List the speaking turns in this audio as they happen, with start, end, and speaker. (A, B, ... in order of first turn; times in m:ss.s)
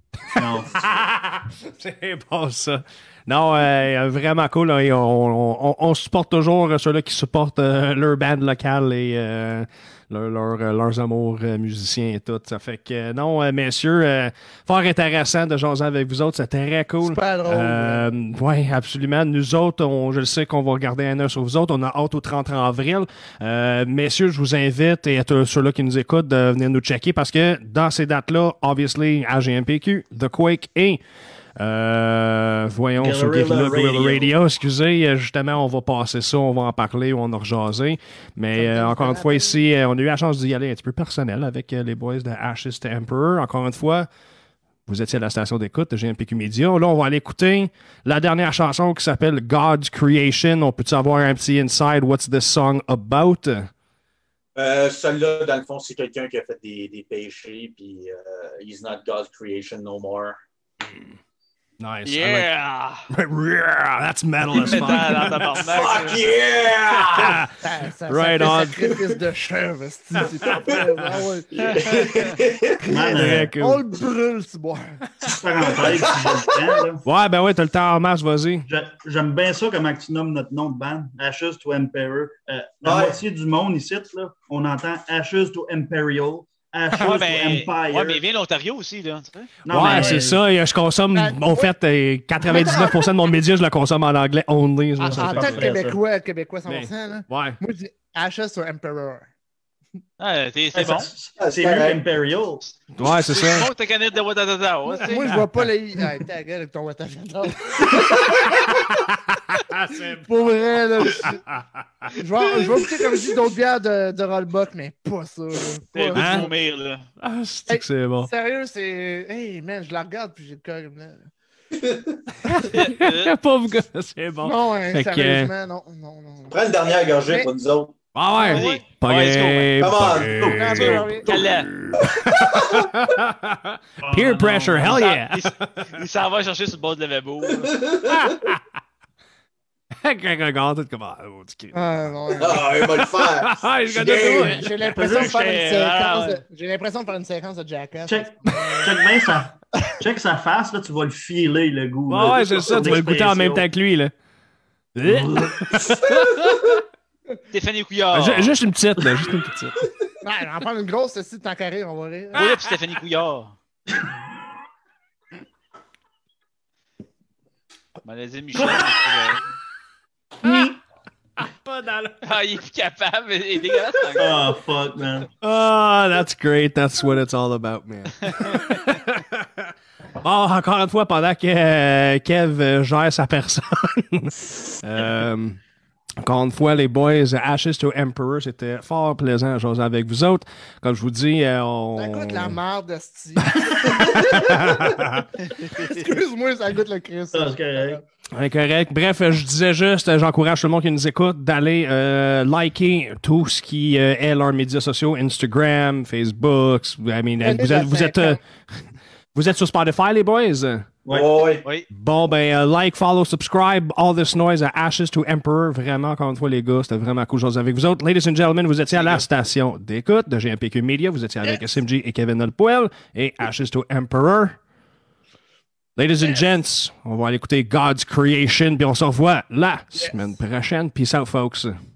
0:00.4-0:00.9 A
0:00.4-0:31.0 B
0:17.0-0:18.2 C
0:31.6-0:44.1 B
0:33.0-0:34.3 A
0:38.5-0:39.6 C
0:44.9-0:53.7 B
0:54.6-1:00.4 D
1:01.8-1:02.5 B
1:02.0-1:03.1 E
1:03.1-1:05.7 B
1:04.5-1:06.3 E
1:05.5-1:07.4 D
1:06.9-1:07.6 B
1:07.6-1:12.1 C
1:08.1-1:09.1 B
1:10.2-1:11.1 B
1:11.5-1:12.8 D
1:12.8-1:15.0 C
1:12.9-1:13.5 A
1:13.1-1:13.8 B
1:15.2-1:16.0 B
1:15.2-1:17.0 A
1:15.8-1:16.4 D
1:17.0-1:18.7 B
1:18.7-1:28.2 A
1:22.8-1:23.2 D
1:26.9-1:29.5 E
1:29.6-1:30.4 A
1:29.7-1:35.7 B
1:31.1-1:31.7 C
1:32.4-1:33.1 C
1:35.0-1:39.3 C
1:35.1-1:36.0 A
1:36.7-1:37.6 B
1:40.2-1:41.1 E
1:40.7-1:42.6 A
1:41.4-1:42.0 D
1:42.7-1:45.4 E
1:43.0-1:43.7 B
1:45.0-1:48.5 C
1:45.2-1:45.6 B
1:48.7-1:50.4 B
1:50.3-1:51.4 C
1:51.1-1:52.8 B
1:52.1-1:56.5 C
1:55.9-1:57.0 E
1:56.2-1:56.5 B
1:57.2-1:58.3 B
1:57.7-2:01.3 C
2:01.7-2:02.2 D
2:02.4-2:05.5 B
2:02.7-2:03.3 E
2:04.4-2:06.6 C
2:06.5-2:08.0 D
2:08.2-2:16.0 B
2:08.4-2:08.7 C
2:08.4-2:09.8 E
2:09.8-2:10.6 D
2:10.3-2:11.1 A
2:10.5-2:11.3 C
2:10.8-2:11.7 E
2:12.0-2:12.9 D
2:14.0-2:15.1 A
2:14.9-2:17.9 E
2:17.6-2:18.4 D
2:18.0-2:18.6 B
2:20.0-2:25.4 B
2:21.7-2:22.8 C
2:22.4-2:24.7 D
2:24.0-2:28.9 C
2:25.0-2:26.4 E
2:28.1-2:33.7 A
2:32.1-2:34.1 B
2:35.0-2:36.8 B
2:35.1-2:35.5 A
2:37.5-2:38.6 E
2:38.1-2:39.8 B
2:40.2-2:42.5 C
2:42.3-2:42.7 B
2:42.3-2:43.6 E
2:48.0-2:49.4 E
2:48.6-2:49.0 A
2:50.4-2:50.8 A
2:50.4-2:50.8 B
2:51.4-2:52.2 B
2:52.2-2:54.6 E
2:53.7-2:54.1 B
2:54.2-2:55.3 A
2:55.4-3:05.6 B
3:06.2-3:12.6 B
3:12.0-3:14.9 C
3:13.9-3:15.2 B
3:15.4-3:16.2 E
3:15.6-3:18.0 C
3:17.3-3:18.0 A
3:18.3-3:28.4 B
3:27.4-3:28.4 C
3:29.4-3:30.9 B
3:31.0-3:31.5 A
3:31.1-3:31.6 D
3:31.9-3:44.6 B
3:38.9-3:39.2 E
3:46.0-3:51.8 B